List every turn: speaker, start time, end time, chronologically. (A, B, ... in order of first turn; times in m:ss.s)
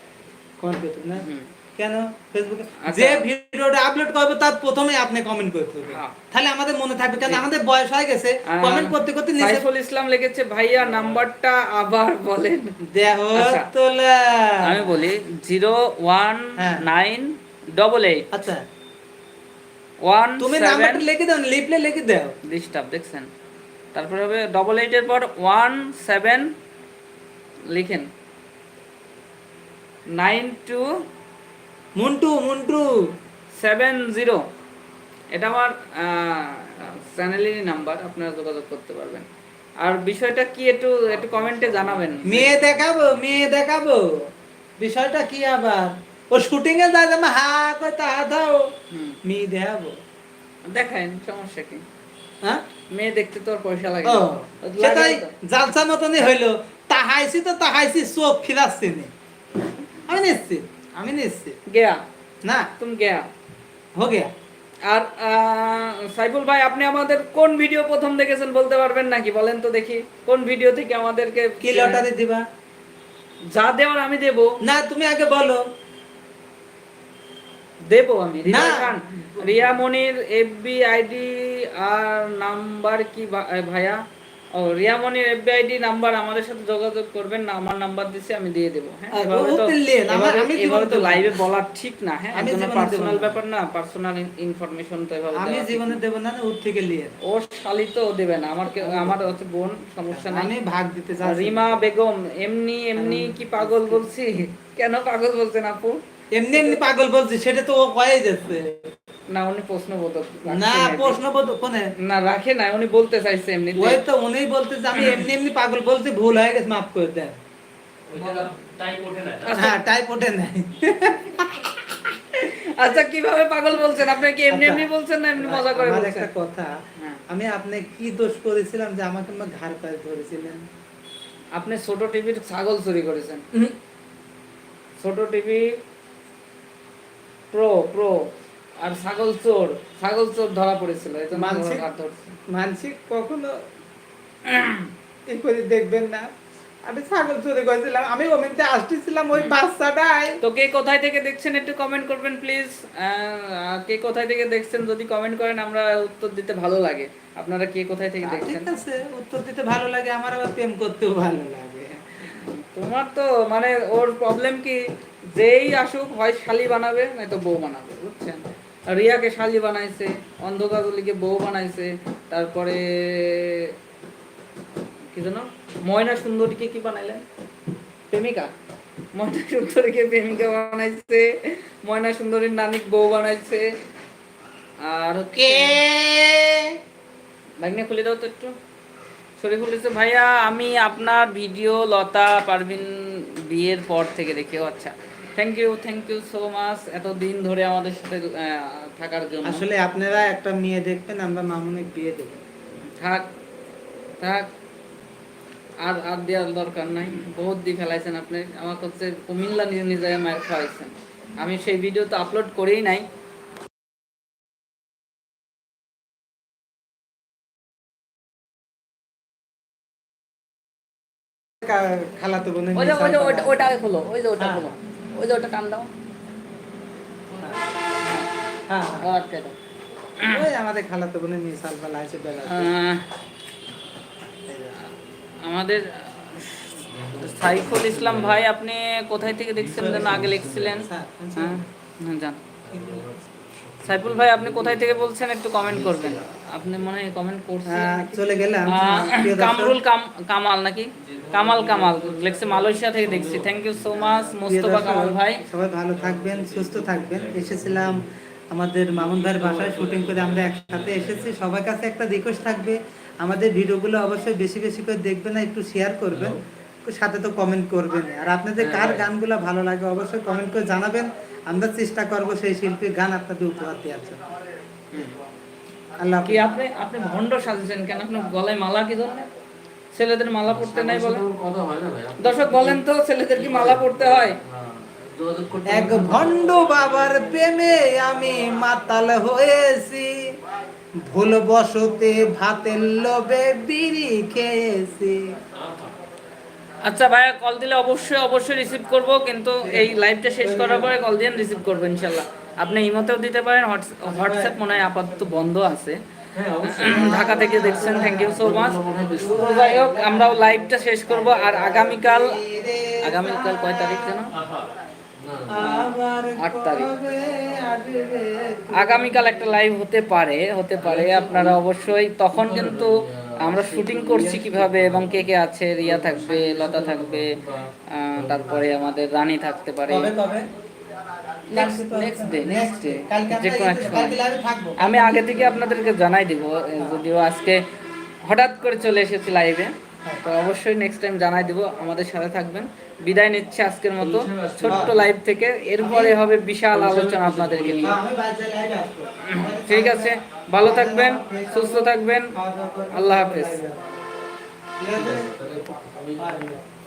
0:00.6-0:01.2 A
0:01.2-0:01.5 B
0:01.8-0:09.6 A
0:02.8-0:03.2 B
0:08.5-0:12.7 B
0:12.9-0:14.9 A
0:13.3-0:13.7 B
0:14.6-0:18.2 B
0:16.6-0:16.8 A
0:18.3-0:18.6 A
0:20.0-0:21.0 B
0:20.4-0:22.3 A
0:22.5-0:23.3 B
0:23.9-0:26.5 B
0:27.7-0:28.1 B
0:30.1-0:30.9 B
0:32.0-0:32.9 A
0:33.6-0:34.4 B
0:35.3-0:39.2 B
0:39.8-0:42.5 B
0:41.1-0:43.1 C
0:42.2-0:44.0 A
0:44.8-0:48.7 A
0:48.9-0:49.2 B
0:49.2-0:49.9 A
0:50.6-0:51.8 B
0:52.9-0:55.3 B
0:54.0-0:59.1 A
1:00.1-1:01.5 A
1:01.7-1:02.0 B
1:02.4-1:02.7 A
1:02.8-1:03.3 B
1:04.0-1:04.3 A
1:04.8-1:12.0 B
1:11.6-1:12.4 A
1:13.4-1:14.6 B
1:14.6-1:15.6 A
1:17.8-1:24.0 B
1:18.4-1:19.7 A
1:24.5-1:36.0 B
1:29.1-1:31.3 A
1:32.3-1:33.4 A
1:35.3-1:37.1 A
1:37.2-1:40.5 B
1:38.8-1:39.2 A
1:40.1-1:41.8 A
1:41.2-1:46.0 B
1:43.0-1:44.0 A
1:46.3-1:48.9 A
1:49.3-1:51.2 B
1:50.5-1:51.9 A
1:52.0-1:54.0 B
1:53.8-1:57.4 A
1:55.0-1:55.2 B
1:58.1-1:59.6 C
1:58.2-1:58.4 A
1:59.4-1:59.8 B
1:59.6-2:01.7 A
2:02.1-2:06.3 B
2:04.5-2:06.7 A
2:07.3-2:10.6 A
2:11.5-2:13.4 B
2:15.0-2:15.7 B
2:17.5-2:18.3 B
2:18.8-2:22.3 B
2:21.3-2:21.8 A
2:22.5-2:23.5 A
2:25.3-2:26.2 A
2:26.8-2:30.4 A
2:30.4-2:38.7 B
2:38.2-2:42.0 A
2:42.3-2:53.7 B
2:55.1-2:57.2 B
2:58.1-2:58.5 B
2:59.1-3:03.7 B
3:04.8-3:05.8 B
3:05.3-3:06.7 A
3:07.6-3:08.5 B
3:09.4-3:19.6 B
3:19.4-3:22.4 A
3:23.0-3:23.3 B
3:24.2-3:24.5 B
3:25.8-3:33.0 B
3:41.6-3:43.7 A
3:42.7-3:45.9 B
3:47.3-3:47.6 C
3:48.0-3:48.3 B
3:48.7-3:49.0 A
3:49.0-3:49.5 B
3:50.3-3:52.7 A
3:52.5-3:53.0 B
3:54.4-3:54.8 A
3:55.4-4:02.4 B
3:56.9-3:58.4 C
3:59.6-4:00.9 C
3:59.7-4:01.6 A
4:02.6-4:05.1 C
4:02.7-4:03.0 A
4:03.8-4:15.4 B
4:05.6-4:06.8 C
4:07.7-4:09.8 A
4:11.0-4:14.2 C
4:14.4-4:18.0 A
4:16.0-4:18.1 C
4:18.5-4:34.2 A
4:18.9-4:21.4 C
4:26.1-4:26.4 C
4:28.6-4:29.0 C
4:34.9-4:35.2 B
4:36.0-4:36.4 A
4:36.2-4:39.2 B
4:39.9-4:41.2 B
4:40.5-4:42.8 C
4:42.2-4:44.4 B
4:43.3-4:46.3 C
4:45.7-4:50.2 A
4:51.1-4:55.2 A
4:55.6-4:55.9 C
4:56.8-5:06.0 B
4:59.6-5:01.0 A
5:04.0-5:05.0 A
5:06.3-5:09.4 C
5:06.6-5:12.4 B
5:06.8-5:08.6 A
5:09.1-5:14.2 A
5:13.0-5:14.3 B
5:14.3-5:14.7 C
5:15.2-5:15.7 C
5:15.5-5:19.4 A
5:15.6-5:16.9 B
5:18.8-5:27.4 B
5:20.8-5:21.6 C
5:22.3-5:28.7 C
5:27.9-5:30.1 B
5:29.9-5:30.4 A
5:31.5-5:34.2 B
5:31.5-5:35.6 A
5:34.8-5:37.6 B
5:36.8-5:37.0 A
5:38.2-5:48.0 B
5:44.0-5:45.1 C
5:44.6-5:44.9 A
5:45.8-5:46.2 A
5:46.7-5:48.0 C
5:47.8-5:54.0 A
5:49.2-5:52.3 B
5:52.9-5:53.6 B
5:54.8-5:55.5 A
5:54.9-5:56.6 C
5:56.2-5:56.6 A